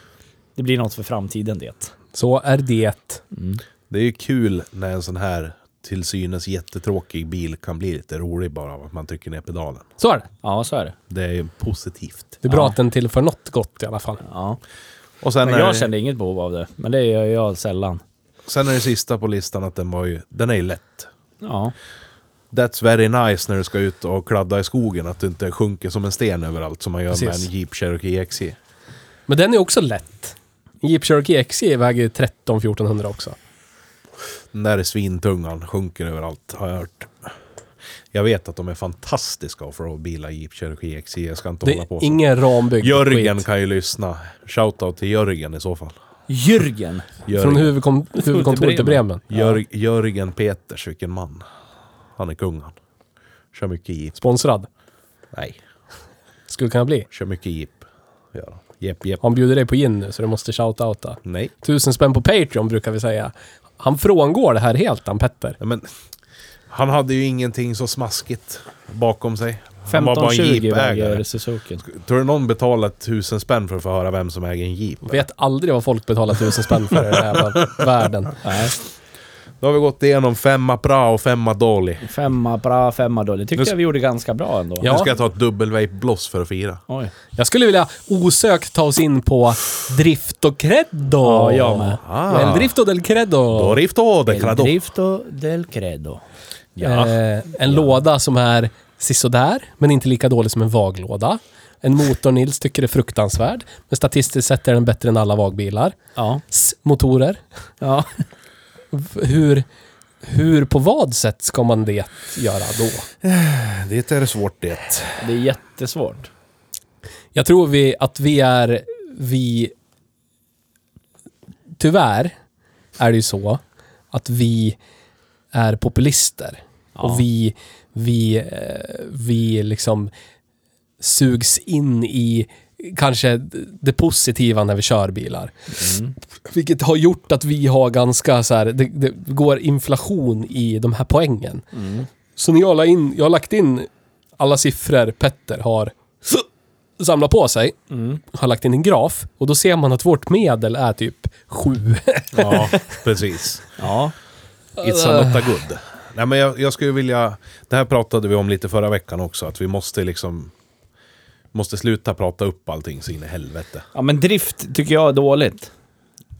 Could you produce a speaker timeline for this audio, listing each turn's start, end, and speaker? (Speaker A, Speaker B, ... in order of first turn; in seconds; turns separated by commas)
Speaker A: 0.6-1.9, Speaker B: 2.1-3.2, Speaker A: 3.3-3.6, Speaker C: 3.9-9.8, Speaker B: 10.0-10.3, Speaker A: 10.4-10.9, Speaker C: 11.1-12.3, Speaker B: 12.4-14.2, Speaker A: 12.5-12.7, Speaker A: 14.2-14.6, Speaker C: 15.2-15.9, Speaker A: 15.4-18.0, Speaker C: 18.4-21.1, Speaker A: 21.4-21.7, Speaker C: 22.5-28.6, Speaker B: 27.1-27.5, Speaker B: 29.3-33.4, Speaker C: 34.5-37.3, Speaker C: 38.1-42.2, Speaker B: 41.6-43.4, Speaker C: 42.8-45.9, Speaker A: 46.3-47.1, Speaker C: 47.2-47.7, Speaker B: 47.4-49.3, Speaker A: 48.2-49.5, Speaker C: 49.3-51.5, Speaker C: 52.2-52.8, Speaker C: 53.5-54.2, Speaker B: 54.2-54.7, Speaker C: 55.3-55.6, Speaker B: 56.5-57.1, Speaker C: 57.1-59.2, Speaker B: 59.2-65.6, Speaker C: 61.2-61.5, Speaker C: 65.6-65.9, Speaker C: 66.7-71.2, Speaker A: 69.9-71.8, Speaker C: 71.8-75.2, Speaker B: 75.0-78.4, Speaker C: 76.9-77.4, Speaker A: 78.4-78.7, Speaker C: 79.6-82.0, Speaker A: 82.0-84.9, Speaker B: 84.8-85.1, Speaker C: 84.8-86.8, Speaker B: 87.3-93.8, Speaker A: 91.2-92.0, Speaker C: 92.0-92.7, Speaker C: 93.5-94.7, Speaker A: 94.3-96.2, Speaker C: 96.8-97.2, Speaker B: 96.8-107.4, Speaker A: 97.7-97.9, Speaker A: 106.2-106.4, Speaker A: 107.8-108.2, Speaker B: 108.9-109.6, Speaker B: 110.2-113.1, Speaker C: 113.2-115.2, Speaker A: 115.2-116.3, Speaker B: 117.3-119.7, Speaker B: 121.8-122.3, Speaker B: 123.0-123.6, Speaker B: 124.1-124.8, Speaker B: 125.5-130.1, Speaker A: 127.0-127.2, Speaker B: 131.0-141.6, Speaker A: 135.8-136.1, Speaker A: 141.7-142.1, Speaker B: 142.4-146.5, Speaker B: 147.0-153.0, Speaker A: 147.9-148.2, Speaker C: 152.3-153.7, Speaker A: 153.8-154.1, Speaker B: 154.8-155.5, Speaker C: 154.8-160.5, Speaker C: 161.5-163.8, Speaker A: 163.9-165.7